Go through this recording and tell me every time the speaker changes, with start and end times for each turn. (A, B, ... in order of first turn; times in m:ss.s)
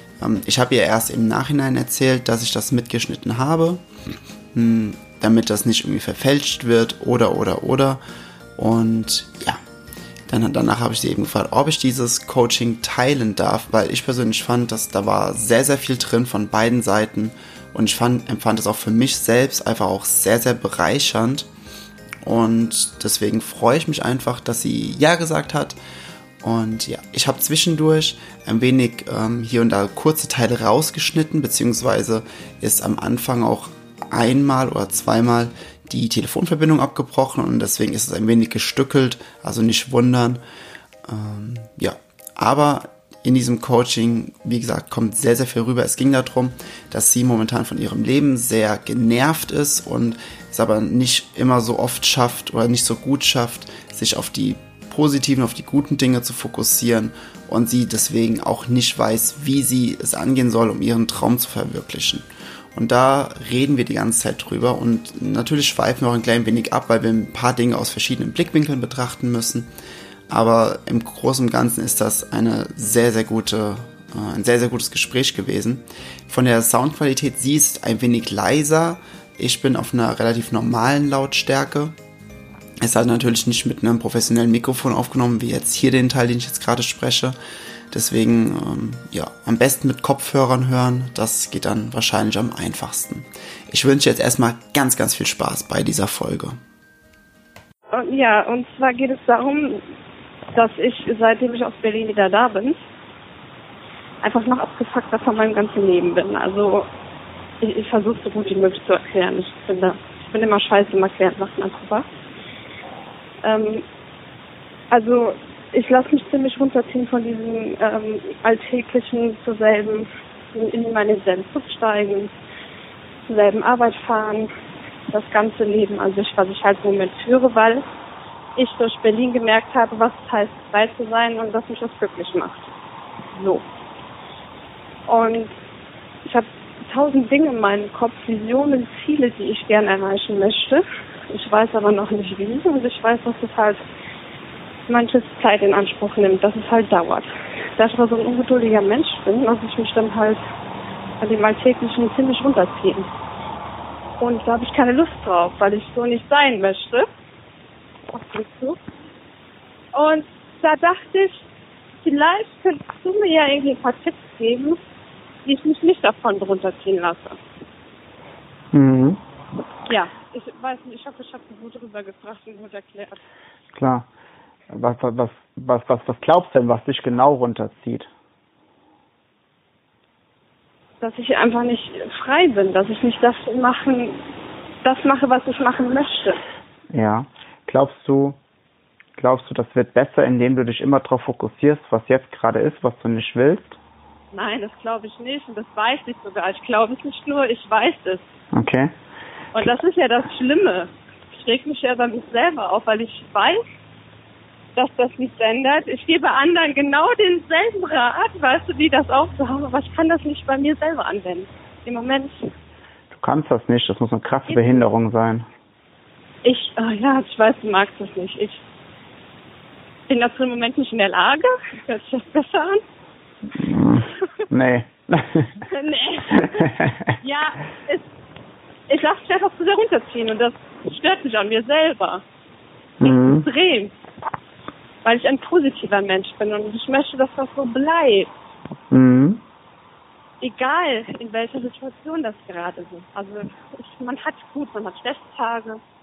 0:00.2-0:03.8 A
0:04.5-0:08.0 A
0:08.6-0:09.6 A
0:10.3-0:21.5 A
0:22.2-0:25.8 A
0:26.4-0:40.4 A
0:41.0-1:09.7 A
1:10.3-1:22.0 A
1:22.8-1:27.4 A
1:27.9-1:36.6 A
1:37.9-1:39.8 B
1:40.6-1:42.8 B
1:44.2-1:46.9 B
1:47.6-1:52.1 B
1:53.4-1:53.8 B
1:54.9-2:02.3 B
2:03.3-2:04.5 B
2:05.1-2:07.8 B
2:08.6-2:12.7 B
2:13.3-2:13.7 B
2:15.1-2:15.6 B
2:16.2-2:23.8 B
2:24.9-2:30.4 B
2:31.2-2:33.1 B
2:34.2-2:37.1 B
2:38.1-2:38.8 B
2:39.9-2:41.5 B
2:42.0-2:44.8 B
2:45.4-2:47.4 B
2:48.7-2:49.2 C
2:49.9-2:53.2 B
2:53.7-2:54.1 C
2:54.7-2:58.1 C
3:01.0-3:04.3 B
3:04.8-3:06.4 B
3:06.9-3:08.4 C
3:09.2-3:13.8 C
3:14.3-3:18.3 B
3:18.5-3:18.9 C
3:19.5-3:23.6 B
3:24.8-3:32.5 B
3:33.1-3:35.5 C
3:34.5-3:34.8 B
3:36.4-3:38.6 B
3:40.1-3:42.8 B
3:43.6-3:45.6 C
3:45.7-3:46.7 B
3:46.3-3:47.2 C
3:47.2-3:48.1 B
3:48.9-3:52.2 B
3:53.0-3:53.5 C
3:53.0-3:53.9 B
3:55.0-3:58.3 B
3:58.9-3:59.4 C
4:00.4-4:05.8 B